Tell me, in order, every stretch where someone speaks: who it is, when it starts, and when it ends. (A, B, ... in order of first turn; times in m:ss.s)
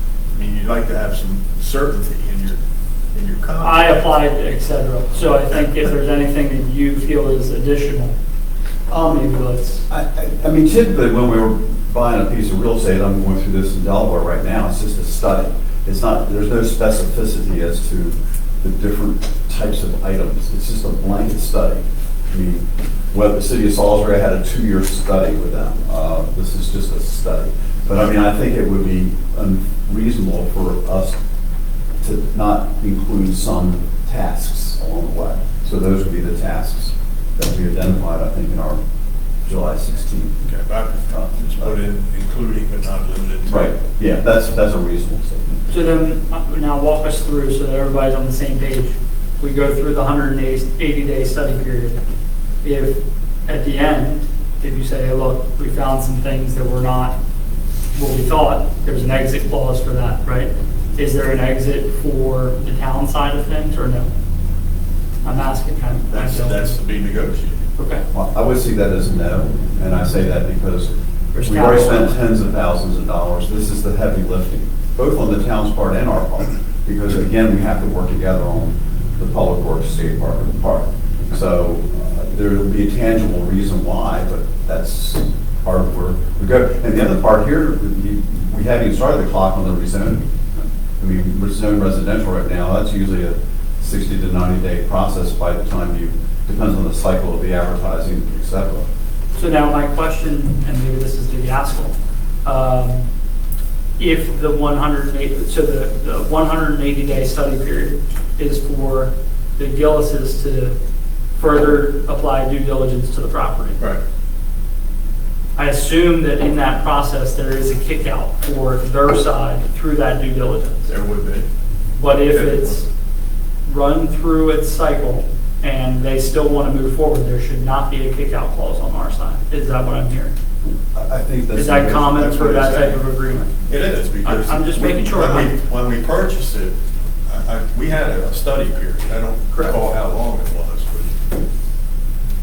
0:00.3-0:02.6 A
0:03.1-0:04.1 A
0:03.6-0:08.1 B
0:08.9-0:09.8 B
0:09.9-0:31.2 C
0:32.0-0:38.8 C
0:39.4-0:40.4 C
0:40.4-0:43.7 A
0:41.1-0:41.8 C
0:43.4-0:45.6 C
0:45.7-0:52.0 B
0:52.6-0:57.1 B
0:57.9-1:04.1 B
1:05.2-1:06.7 B
1:06.1-1:07.7 A
1:07.8-1:08.0 B
1:08.1-1:10.9 C
1:11.3-1:12.2 B
1:11.4-1:30.2 C
1:31.0-1:38.9 C
1:39.3-1:43.1 B
1:44.0-1:50.7 B
1:51.4-1:53.8 B
1:55.6-2:00.9 B
2:00.9-2:01.5 A
2:02.0-2:02.9 B
2:02.2-2:02.8 A
2:03.6-2:10.3 B
2:10.9-2:12.6 C
2:11.5-2:13.5 B
2:12.3-2:13.0 A
2:13.7-2:16.7 A
2:14.2-2:15.5 B
2:17.3-2:21.2 A